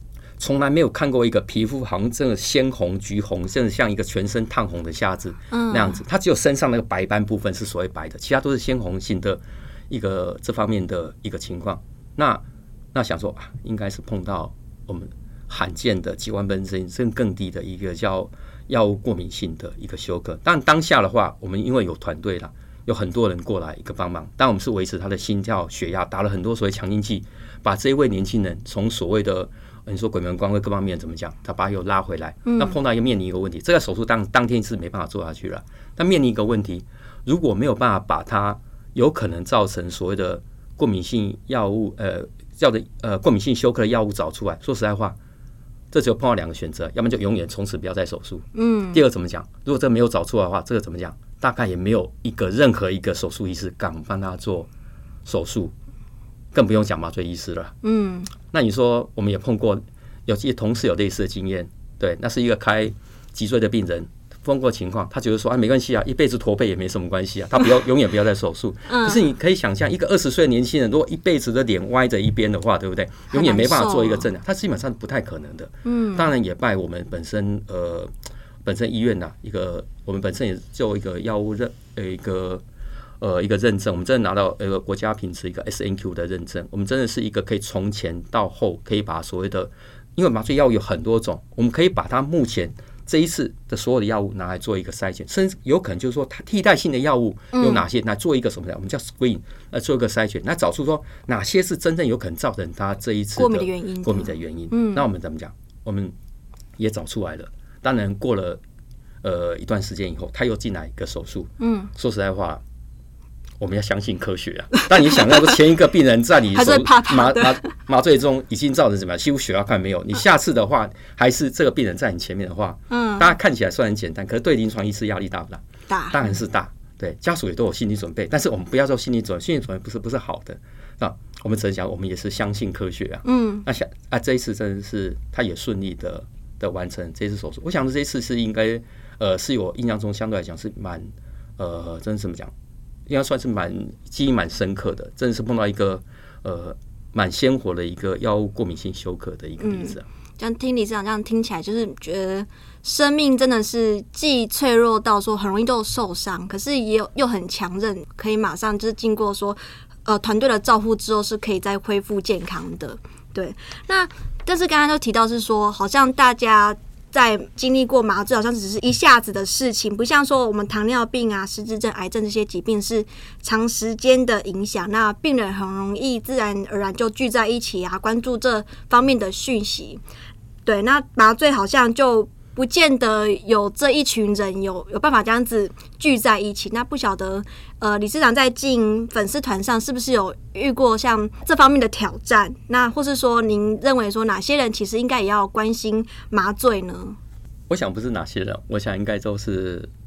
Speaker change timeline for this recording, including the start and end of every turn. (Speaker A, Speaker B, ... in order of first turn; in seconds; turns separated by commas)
Speaker A: 0.4-12.4, Speaker B: 5.5-6.0, Speaker A: 12.9-45.2, Speaker B: 32.5-32.8, Speaker A: 45.9-54.7, Speaker B: 48.5-49.0, Speaker A: 55.2-55.7, Speaker A: 56.5-57.8, Speaker B: 57.8-58.3, Speaker A: 58.5-78.1, Speaker B: 68.9-69.2, Speaker B: 73.3-74.3, Speaker B: 75.8-76.3, Speaker A: 78.6-82.6, Speaker A: 83.2-106.1, Speaker B: 97.5-97.8, Speaker B: 103.3-105.0, Speaker A: 106.8-108.6, Speaker A: 109.2-112.6, Speaker B: 111.6-111.9, Speaker A: 113.6-142.5, Speaker B: 116.5-117.7, Speaker B: 122.9-123.3, Speaker B: 125.9-126.2, Speaker B: 133.2-133.6, Speaker A: 143.1-150.0, Speaker B: 149.6-180.0, Speaker B: 180.7-197.2, Speaker A: 197.7-199.9